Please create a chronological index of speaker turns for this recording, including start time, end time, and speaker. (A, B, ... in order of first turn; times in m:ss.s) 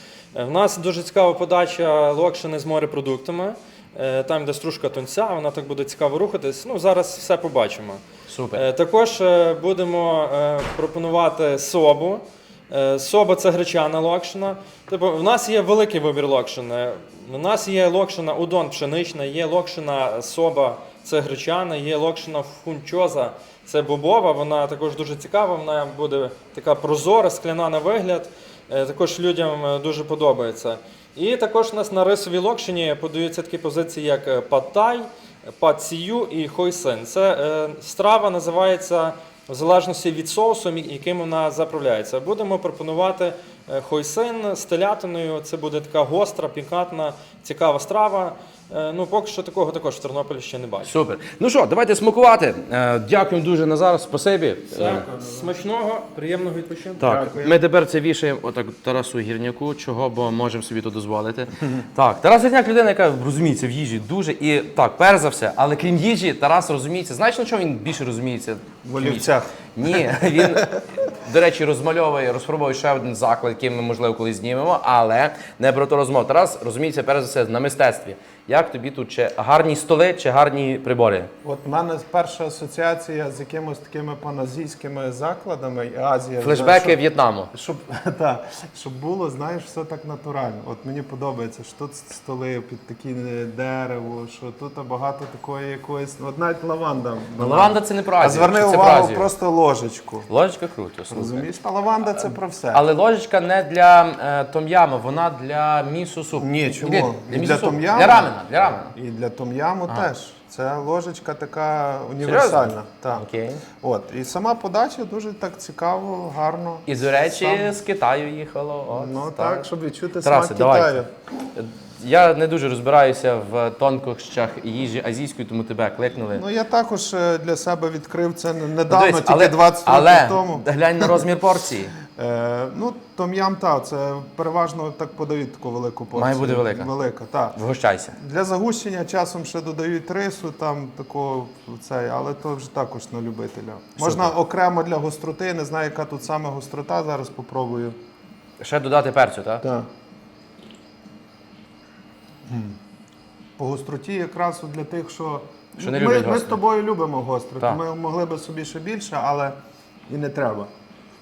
0:00.3-0:08.0 A
0:08.3-0:08.6 B
0:08.5-0:50.9 A
0:50.8-0:55.0 B
0:54.7-0:57.0 A
0:54.8-0:55.5 C
0:57.0-0:57.6 C
0:57.0-1:21.3 B
1:08.8-1:10.7 C
1:21.4-1:27.0 C
1:26.4-1:27.5 B
1:27.5-1:40.3 C
1:37.4-1:39.3 B
1:40.3-1:41.4 B
1:41.1-1:42.8 C
1:42.0-1:48.9 B
1:46.4-1:48.3 C
1:48.8-1:53.2 C
1:52.2-1:53.6 B
1:53.8-1:57.7 C
1:56.9-1:59.6 B
1:58.9-2:01.1 C
2:00.2-2:01.0 B
2:01.5-2:06.4 B
2:06.3-2:11.2 C
2:08.9-2:11.9 B
2:12.1-2:17.6 C
2:16.1-2:16.9 B
2:17.5-2:18.2 B
2:18.2-2:28.0 C
2:24.0-2:24.3 B
2:28.6-2:29.6 B
2:29.6-2:29.9 C
2:32.5-2:32.8 C
2:33.6-2:39.6 C
2:35.8-2:36.6 B
2:40.1-2:40.7 C